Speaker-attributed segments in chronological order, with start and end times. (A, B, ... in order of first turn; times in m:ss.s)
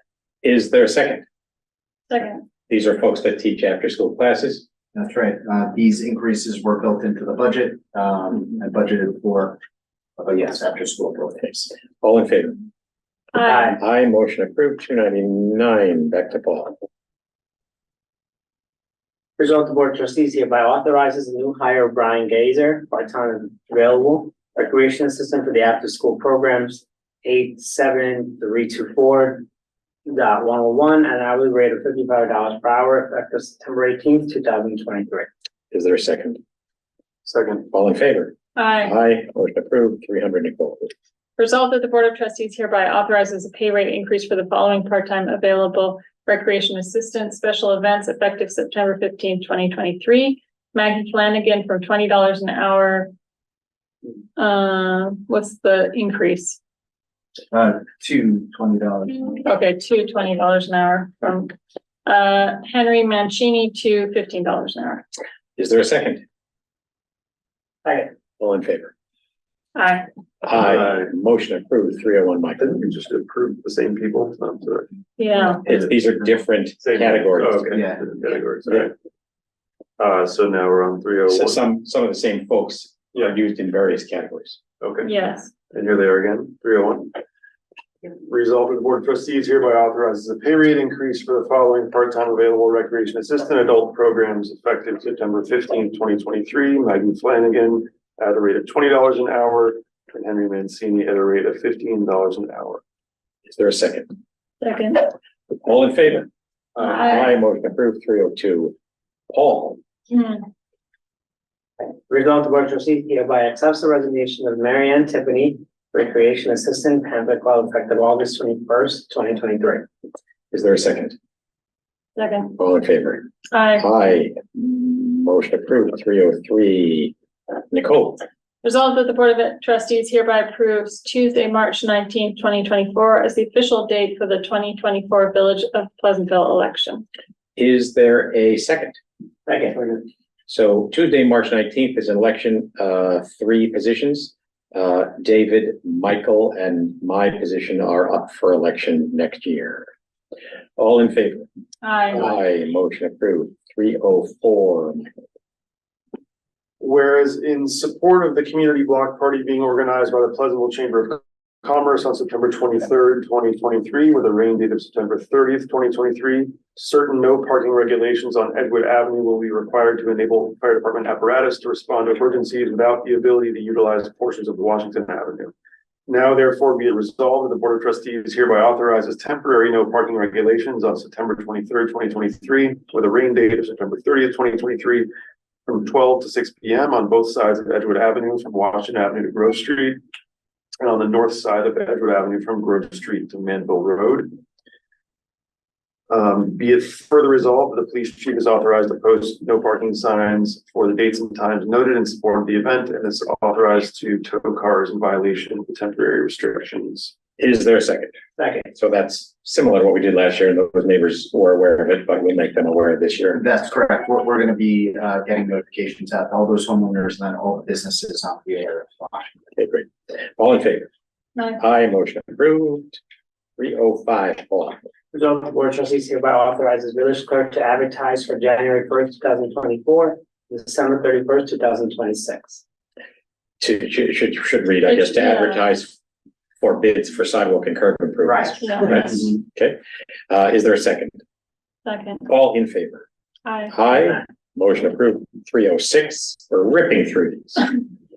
0:00.4-0:01.2 A
0:02.1-0:02.4 B
0:02.7-0:04.6 A
0:04.9-0:09.6 C
0:10.2-0:11.5 C
0:11.4-0:12.6 A
0:13.3-0:13.7 B
0:13.4-0:13.8 D
0:13.5-0:16.8 A
0:19.4-0:29.4 D
0:30.0-0:35.3 D
0:35.7-0:36.4 A
0:37.2-0:37.7 E
0:37.7-0:40.9 A
0:38.6-0:38.9 B
0:41.4-0:53.1 B
0:54.4-0:56.6 B
0:57.5-0:59.4 C
0:59.4-1:01.5 B
1:02.0-1:05.0 B
1:05.6-1:06.2 A
1:08.4-1:08.9 A
1:09.7-1:10.1 B
1:10.4-1:12.8 A
1:10.5-1:11.1 E
1:12.6-1:14.9 E
1:15.2-1:15.6 B
1:15.6-1:17.8 A
1:16.8-1:18.9 E
1:17.7-1:18.0 C
1:20.0-1:21.6 E
1:21.3-1:24.6 A
1:24.8-1:25.1 E
1:25.0-1:25.5 B
1:25.7-1:27.2 E
1:28.2-1:42.8 E
1:43.5-1:44.1 A
1:44.6-1:45.1 B
1:45.6-1:46.3 A
1:46.8-1:47.2 B
1:46.8-1:48.7 A
1:49.3-1:49.8 A
1:50.1-1:50.4 B
1:51.8-1:59.8 D
2:00.5-2:01.1 A
2:02.2-2:02.5 B
2:02.6-2:03.2 A
2:03.5-2:03.8 B
2:03.8-2:07.1 A
2:07.7-2:08.2 A
2:08.6-2:17.0 B
2:17.6-2:19.0 A
2:19.5-2:20.0 D
2:20.5-2:29.9 A
2:30.8-2:31.5 A
2:31.8-2:32.2 B
2:32.1-2:35.1 A
2:36.8-2:55.5 E
2:56.1-3:05.1 E
3:05.6-3:10.0 E
3:10.8-3:14.4 E
3:16.1-3:27.1 E
3:27.4-3:28.1 A
3:28.4-3:28.7 D
3:28.7-3:33.4 A
3:33.4-3:39.3 C
3:39.6-3:40.9 A
3:41.6-3:43.0 A
3:43.6-3:44.8 A
3:45.1-3:52.6 D
3:53.6-3:56.0 A
3:54.8-3:55.6 B
3:56.6-4:01.2 A
3:58.2-3:59.2 D
3:58.6-3:59.1 B
4:01.8-4:02.2 B
4:02.2-4:03.0 A
4:03.4-4:03.7 B
4:03.7-4:07.7 A